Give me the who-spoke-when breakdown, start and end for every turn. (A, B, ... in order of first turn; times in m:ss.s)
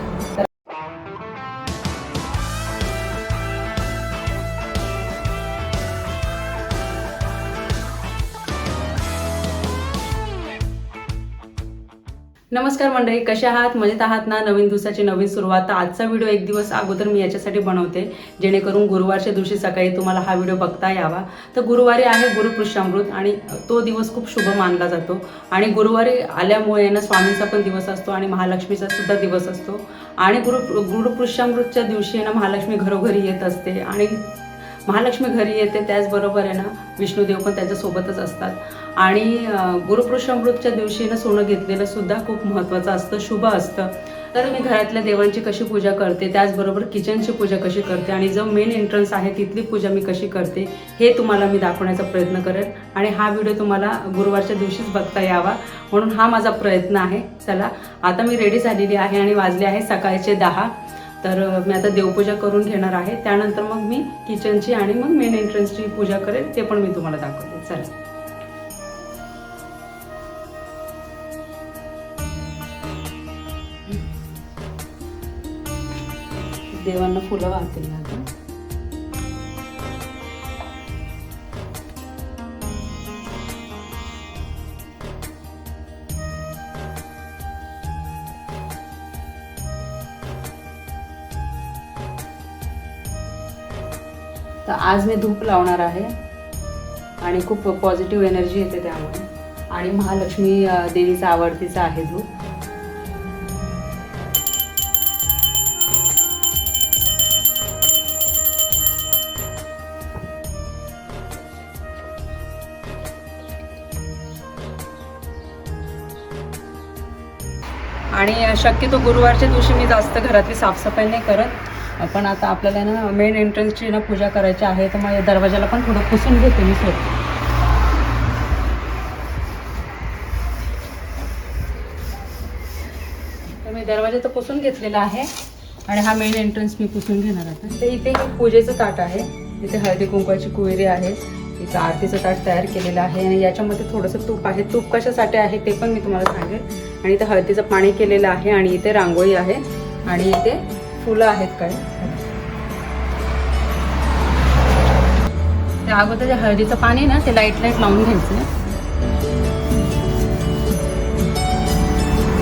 0:12.5-0:34.2 A
0:34.9-1:07.9 A
1:16.7-1:18.3 A
1:34.6-1:36.2 A
1:37.2-1:42.3 A
1:58.1-2:07.1 A
2:13.6-2:15.3 A
2:15.9-2:32.0 A
2:35.8-2:38.5 A